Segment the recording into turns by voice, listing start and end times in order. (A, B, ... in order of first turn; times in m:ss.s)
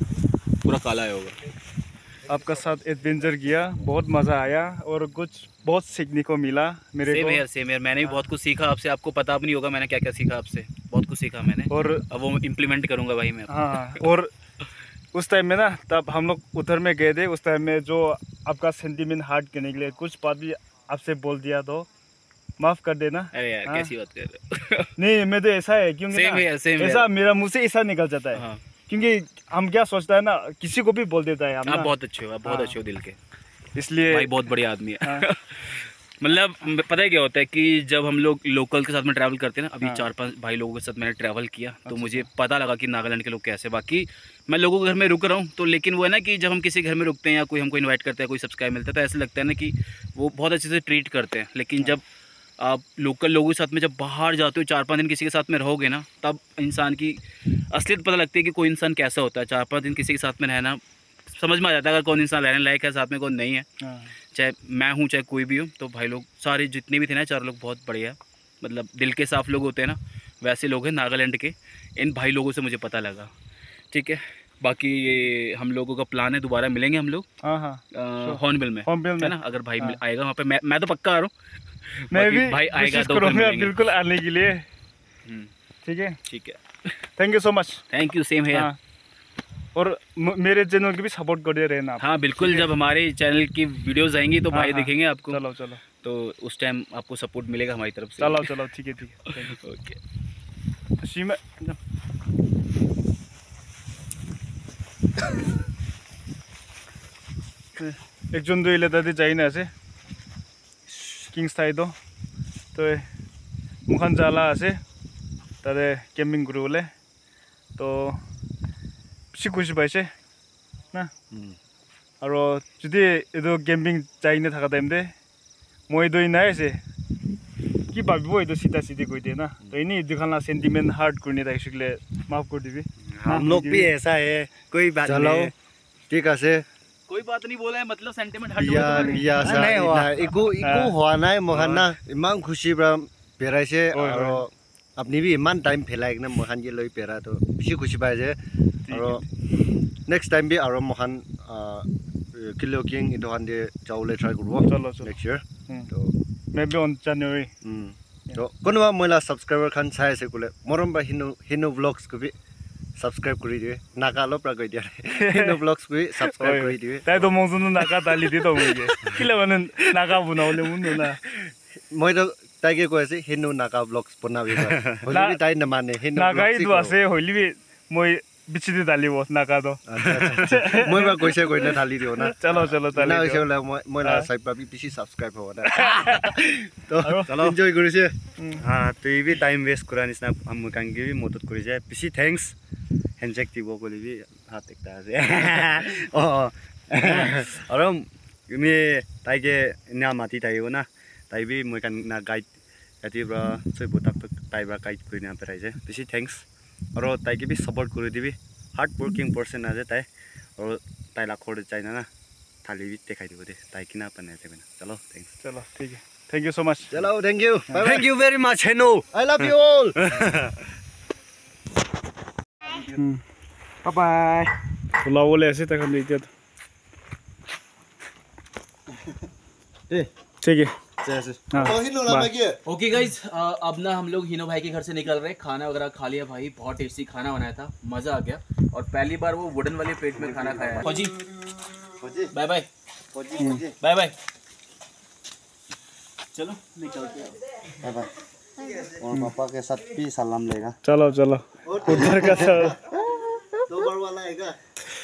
0:00.6-0:01.4 A
0:02.3-0:07.4 B
0:07.0-0:14.0 A
0:11.7-0:12.0 B
0:13.5-0:14.3 B
0:15.1-0:21.9 B
0:22.6-0:23.9 B
0:23.3-0:24.9 A
0:25.0-0:31.9 B
0:26.1-0:27.1 A
0:28.3-0:28.6 A
0:31.7-0:33.2 A
0:32.4-0:32.7 B
0:33.8-0:34.3 B
0:34.1-0:52.0 A
0:41.9-0:42.3 B
0:52.6-1:03.6 A
1:03.8-1:04.1 B
1:04.3-1:13.3 A
1:13.9-1:17.2 A
1:17.4-1:20.0 B
1:17.9-1:21.3 A
1:21.9-1:23.8 A
1:22.1-1:24.6 B
1:25.2-1:25.5 A
1:25.8-1:26.2 B
1:26.3-1:26.9 A
1:27.2-1:27.8 B
1:27.9-1:28.7 A
1:28.5-1:28.8 B
1:29.7-1:32.7 B
1:32.0-1:35.4 A
1:34.5-1:35.8 B
1:36.0-1:38.6 A
1:38.2-1:39.6 B
1:39.5-1:40.0 A
1:41.0-1:41.8 B
1:47.8-1:49.7 B
1:51.3-1:51.9 B
1:52.7-1:53.1 B
1:53.9-1:54.8 B
1:55.6-1:56.9 B
1:57.8-1:58.2 B
1:59.3-2:00.1 B
2:01.3-2:01.6 C
2:02.2-2:05.1 B
2:05.9-2:06.8 B
2:07.9-2:13.9 B
2:13.1-2:15.5 D
2:15.0-2:15.5 C
2:16.1-2:16.6 C
2:17.1-2:19.8 A
2:18.6-2:28.4 C
2:18.8-2:19.7 B
2:19.6-2:20.0 D
2:20.6-2:20.9 B
2:21.5-2:21.9 D
2:23.9-2:24.4 B
2:28.9-2:29.2 B
2:28.9-2:29.2 C
2:30.0-2:36.1 C
2:34.7-2:35.1 B
2:36.5-2:37.5 B
2:37.6-2:42.3 C
2:43.0-2:47.3 C
2:45.1-2:45.6 B
2:46.2-2:51.2 B
2:48.0-2:48.7 C
2:50.8-2:56.9 C
2:55.1-2:55.4 B
2:56.1-3:03.5 B
2:59.9-3:08.2 C
3:04.0-3:04.3 B
3:05.7-3:07.6 B
3:08.4-3:08.6 B
3:08.6-3:12.5 D
3:13.2-3:22.5 D
3:23.0-3:26.4 D
3:27.0-3:32.1 D
3:32.6-3:35.3 D
3:35.4-3:37.0 B
3:36.9-3:38.2 C
3:37.7-3:40.5 D
3:39.1-3:40.2 C
3:43.0-3:43.2 B
3:43.8-3:44.5 B
3:45.0-3:46.3 B
3:50.4-3:50.7 B
3:51.0-3:52.6 C
3:51.5-3:52.3 B
3:52.6-4:01.2 A
4:00.2-4:00.7 C
4:02.0-4:02.3 C
4:02.3-4:02.7 A
4:03.2-4:03.7 C
4:03.8-4:04.1 A
4:06.3-4:07.3 A
4:07.8-4:08.1 C
4:09.0-4:10.7 C
4:10.8-4:12.8 B
4:11.6-4:12.9 C
4:13.7-4:14.6 C